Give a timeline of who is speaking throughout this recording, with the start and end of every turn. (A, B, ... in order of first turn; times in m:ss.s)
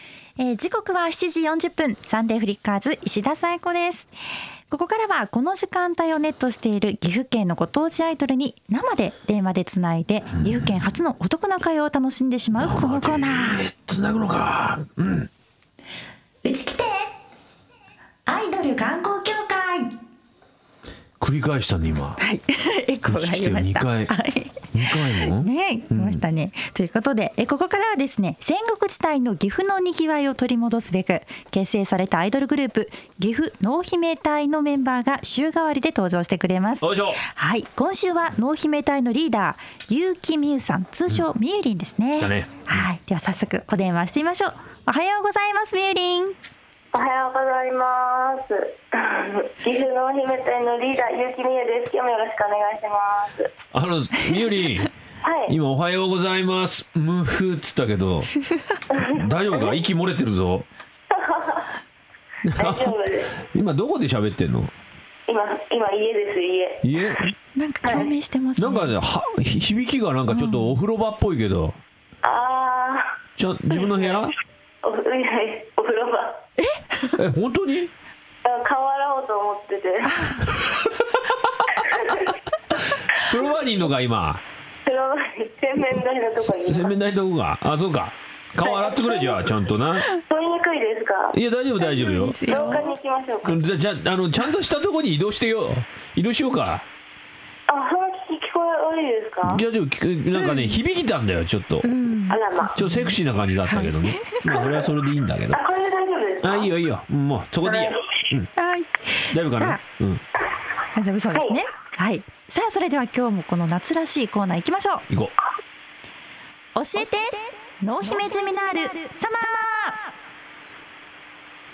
0:00.4-0:04.1 A
0:04.7-0:13.6 A
0:10.4-0:10.7 B
0:12.6-0:15.3 B
0:16.4-0:17.0 A
0:18.3-0:20.0 A
0:21.2-0:22.2 B
0:22.2-0:46.4 A
0:23.1-0:24.1 B
0:24.7-0:26.2 B
0:36.8-0:37.2 B
0:42.2-0:42.9 B
0:46.9-0:53.5 C
0:53.7-0:54.9 B
0:55.2-0:55.5 C
0:55.5-0:58.3 B
0:58.9-0:59.8 C
0:59.1-1:00.7 B
1:01.1-1:01.7 C
1:02.4-1:04.7 B
1:02.6-1:03.3 C
1:05.3-1:06.8 C
1:06.8-1:07.3 B
1:07.6-1:08.9 A
1:07.8-1:08.1 C
1:08.6-1:11.8 B
1:10.3-1:10.8 A
1:12.2-1:13.1 C
1:13.4-1:14.3 B
1:13.7-1:14.2 C
1:14.8-1:16.4 C
1:17.2-1:17.9 B
1:18.4-1:20.4 C
1:21.8-1:22.3 C
1:23.1-1:24.4 B
1:24.8-1:27.0 C
1:26.6-1:30.1 B
1:28.6-1:29.5 C
1:30.1-1:31.4 C
1:31.3-1:32.5 B
1:31.8-1:32.9 A
1:32.4-1:33.6 C
1:33.4-1:36.9 B
1:37.7-1:39.6 C
1:39.4-1:41.9 B
1:40.4-1:40.8 A
1:41.8-1:44.4 A
1:42.3-1:42.9 C
1:42.8-1:45.6 B
1:44.5-1:44.9 C
1:45.5-1:46.7 C
1:46.4-1:48.5 B
1:47.6-1:48.1 C
1:48.6-1:49.8 A
1:49.3-1:50.2 B
1:50.9-1:55.0 A
1:51.3-1:51.6 C
1:56.8-2:00.1 A